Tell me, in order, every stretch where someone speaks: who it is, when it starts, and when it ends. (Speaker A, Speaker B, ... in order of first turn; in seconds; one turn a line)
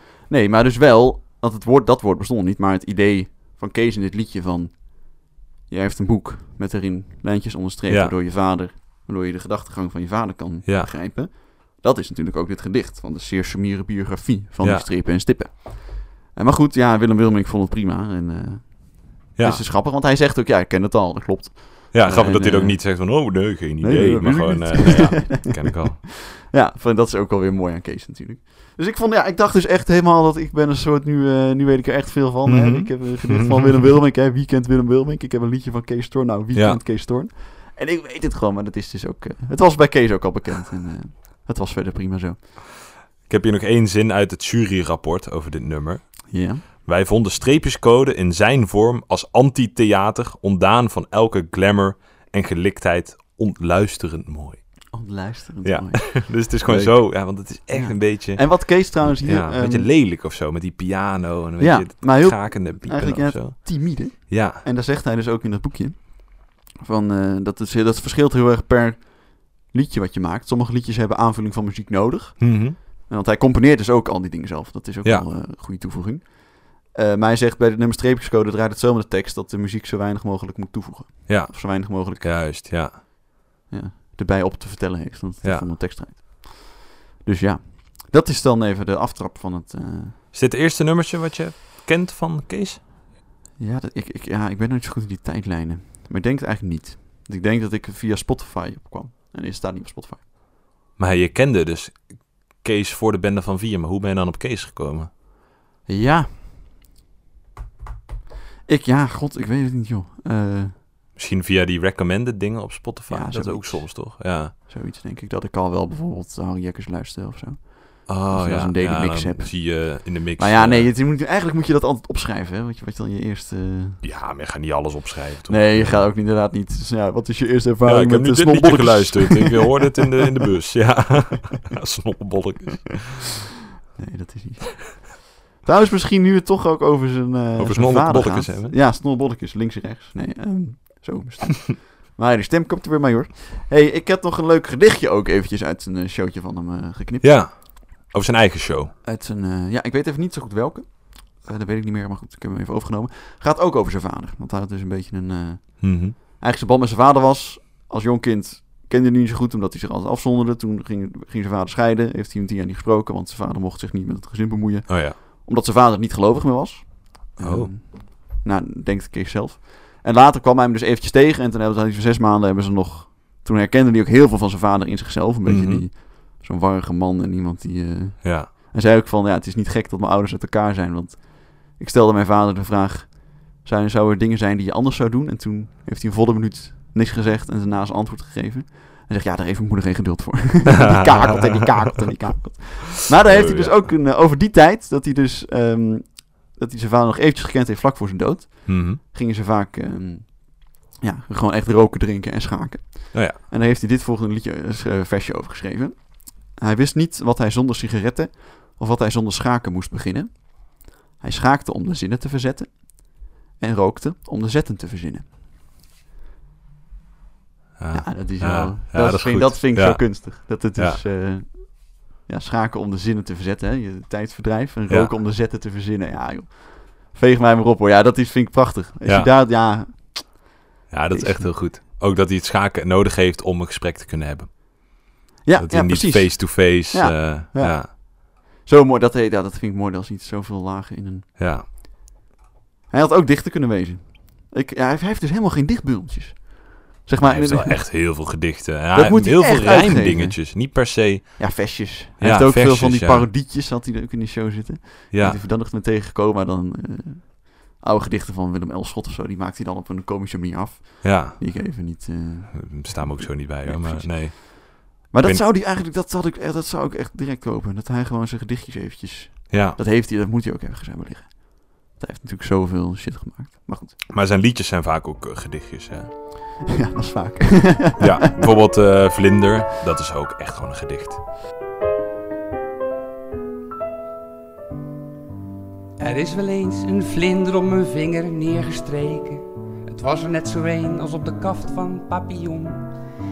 Speaker A: 0.3-23.1
Speaker B: 19.4-19.6
Speaker B: 21.9-26.0
Speaker A: 23.8-42.4
Speaker B: 32.5-33.9
Speaker B: 36.5-36.8
Speaker B: 43.3-46.1
Speaker A: 46.3-46.6
Speaker B: 46.8-54.6
Speaker A: 54.9-59.9
Speaker B: 55.6-64.6
Speaker A: 61.6-82.4
Speaker B: 72.4-72.8
Speaker B: 81.3-83.0
Speaker A: 83.7-90.2
Speaker B: 85.4-85.7
Speaker B: 90.3-92.8
Speaker A: 93.6-100.2
Speaker B: 101.0-102.0
Speaker B: 102.6-105.1
Speaker A: 105.9-106.4
Speaker A: 108.7-110.7
Speaker B: 111.2-114.5
Speaker A: 113.1-124.0
Speaker B: 118.1-120.9
Speaker B: 124.0-126.0
Speaker A: 125.5-130.3
Speaker B: 127.8-133.2
Speaker A: 133.9-147.4
Speaker B: 137.6-138.7
Speaker B: 147.2-148.9
Speaker A: 149.0-215.2
Speaker B: 155.8-156.2
Speaker B: 164.9-165.2
Speaker B: 167.4-167.7
Speaker B: 175.4-175.8
Speaker B: 178.2-178.5
Speaker B: 193.1-193.8
Speaker B: 198.7-199.0
Speaker B: 217.8-221.0
Speaker A: 217.9-230.4
Speaker B: 229.1-229.3
Speaker B: 230.9-234.6
Speaker A: 231.1-231.5
Speaker A: 235.4-241.3
Speaker B: 235.6-237.9
Speaker B: 241.4-241.6
Speaker A: 242.9-247.9
Speaker B: 247.2-251.6
Speaker A: 248.9-250.4
Speaker A: 251.4-264.5
Speaker B: 252.2-253.3
Speaker B: 255.1-255.4
Speaker B: 261.0-261.4
Speaker B: 262.5-265.4
Speaker A: 265.1-273.9
Speaker B: 269.5-269.8
Speaker B: 274.1-276.1
Speaker A: 276.7-278.3
Speaker B: 278.0-281.2
Speaker C: 286.0-292.9